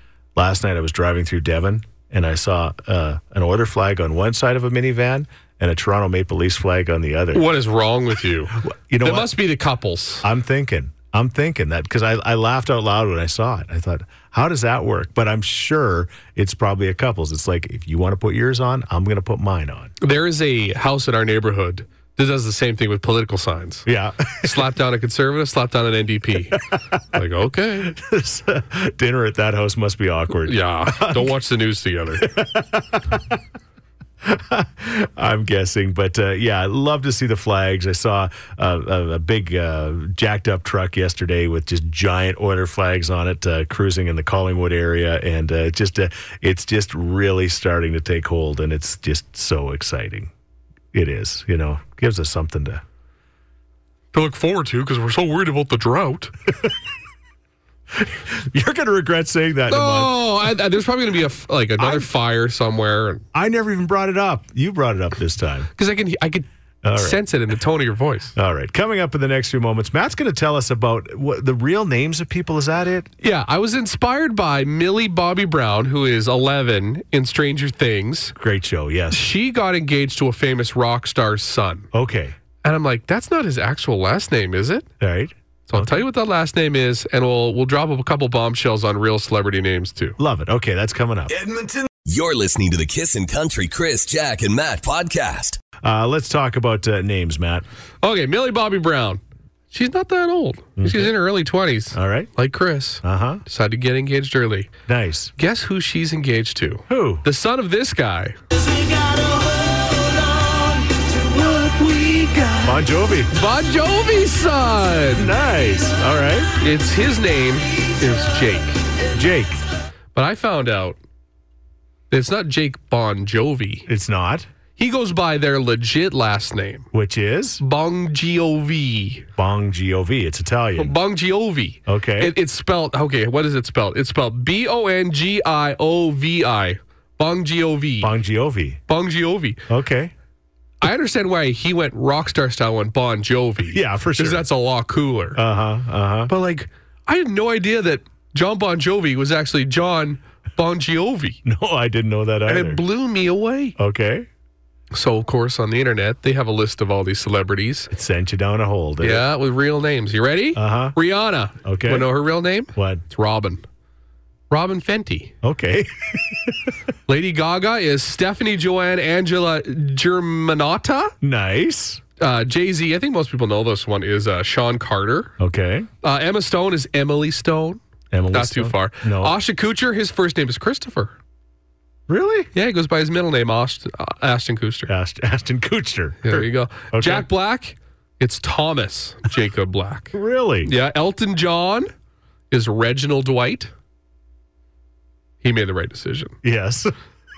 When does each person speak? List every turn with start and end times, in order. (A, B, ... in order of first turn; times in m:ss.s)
0:00.4-0:07.4 A
0:07.3-0:10.2 B
0:08.5-0:09.4 A
0:10.2-0:19.9 A
0:20.0-0:23.9 B
0:23.9-0:24.7 A
0:24.4-0:26.6 B
0:27.1-0:27.9 B
0:27.8-0:31.3 A
0:30.5-0:32.3 B
0:32.2-0:33.4 A
0:34.2-0:50.3 A
0:50.9-0:52.8 A
0:54.1-0:56.3 B
0:58.0-1:00.3 A
0:59.7-1:03.2 B
1:01.8-1:02.1 A
1:03.3-1:05.7 A
1:05.8-1:08.3 B
1:06.8-1:07.2 A
1:08.4-1:13.1 A
1:13.2-1:18.3 B
1:18.4-1:19.2 A
1:19.1-1:21.9 B
1:21.9-1:22.4 A
1:22.6-1:24.9 B
1:25.0-1:26.0 A
1:25.7-1:30.2 B
1:30.2-1:31.4 A
1:32.1-1:35.6 C
1:35.8-1:37.6 A
1:38.0-1:44.7 B
1:40.8-1:41.2 A
1:41.9-1:42.3 A
1:43.0-1:43.4 A
1:44.9-1:45.3 A
1:45.4-1:48.4 B
1:46.9-1:47.2 A
1:51.3-1:55.3 B
1:52.6-1:53.3 A
1:55.2-1:56.5 A
1:56.6-1:58.8 B
1:59.1-1:59.6 A
2:00.1-2:01.0 B
2:02.1-2:03.9 B
2:03.9-2:04.5 A
2:04.8-2:06.9 B
2:06.9-2:07.6 A
2:07.6-2:09.2 B
2:09.4-2:11.0 A
2:10.8-2:18.1 B
2:11.9-2:12.3 A
2:18.0-2:18.8 A
2:18.9-2:19.6 B
2:19.7-2:20.1 A
2:20.8-2:25.4 B
2:23.7-2:24.5 A
2:25.4-2:26.3 A
2:26.3-2:31.4 B
2:31.4-2:32.8 A
2:32.5-2:33.8 B
2:33.8-2:34.3 A
2:34.9-2:37.9 B
2:37.9-2:39.3 A
2:39.0-2:43.6 B
2:40.6-2:41.0 A
2:41.6-2:42.2 A
2:42.7-2:43.0 A
2:44.5-2:45.3 B
2:45.4-2:46.7 A
2:47.1-2:51.1 B
2:51.2-2:52.0 A
2:52.2-2:55.3 B
2:55.4-2:55.9 A
2:56.0-2:57.8 B
2:58.1-2:59.4 A
2:58.3-3:01.1 B
3:02.1-3:02.5 A
3:02.5-3:04.9 B
3:04.9-3:07.3 A
3:06.2-3:10.1 B
3:10.1-3:10.7 A
3:10.6-3:11.9 B
3:12.5-3:13.7 B
3:15.4-3:16.4 B
3:16.4-3:16.9 A